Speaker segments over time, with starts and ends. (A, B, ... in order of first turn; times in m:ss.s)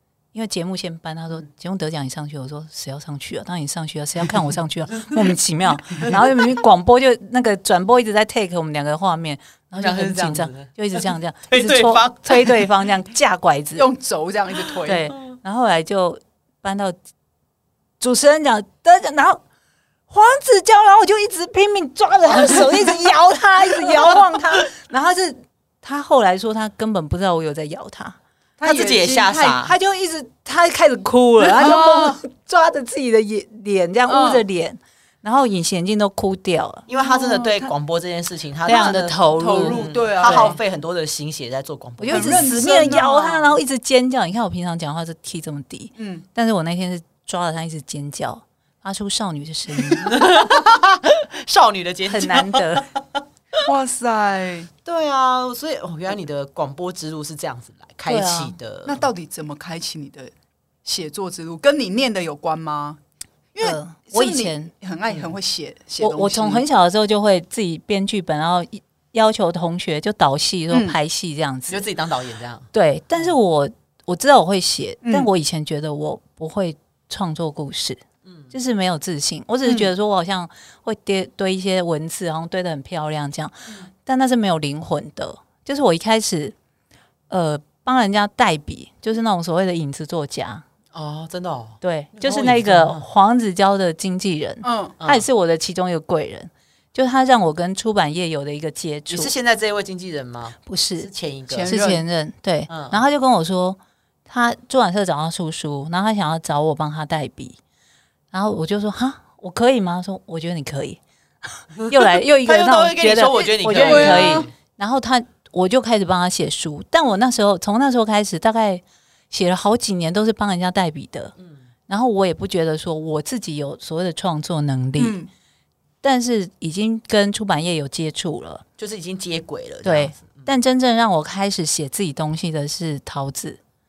0:00.3-0:13.9 A
0:09.8-0:12.7 B
0:13.8-0:15.1 C
0:14.8-0:17.0 A
0:18.0-0:19.4 A
0:20.1-0:28.2 A
0:28.6-0:29.6 C
0:28.6-0:29.7 B
0:29.6-0:36.8 A
0:31.4-0:32.2 C
0:34.1-0:34.4 C
0:36.9-0:42.6 B
0:37.0-0:37.7 C
0:38.6-0:40.6 A
0:38.7-0:40.6 C
0:42.0-0:50.1 A
0:42.1-0:43.6 C
0:46.0-0:46.2 C
0:49.9-0:53.2 B
0:52.0-0:52.9 A
0:53.6-0:54.7 C
0:54.8-0:59.1 B
0:58.1-0:58.5 A
0:58.8-1:00.3 C
1:00.8-1:03.0 C
1:03.5-1:06.6 C
1:03.6-1:04.7 A
1:06.0-1:11.8 A
1:10.7-1:11.0 C
1:11.7-1:12.7 B
1:12.7-1:18.0 A
1:15.0-1:15.3 C
1:18.5-1:26.5 A
1:19.6-1:19.9 C
1:27.3-1:30.6 A
1:30.9-1:33.0 B
1:31.8-1:39.3 A
1:34.6-1:35.0 C
1:35.0-1:35.2 B
1:39.1-1:41.7 B
1:40.6-1:41.1 A
1:41.5-1:42.0 C
1:41.6-1:47.6 A
1:42.7-1:43.0 B
1:48.3-2:01.3 A
1:51.9-1:54.5 B
1:53.7-1:54.5 C
2:01.9-2:05.2 A
2:05.0-2:05.3 C
2:06.0-2:08.6 A
2:08.8-2:10.5 B
2:09.8-2:13.6 A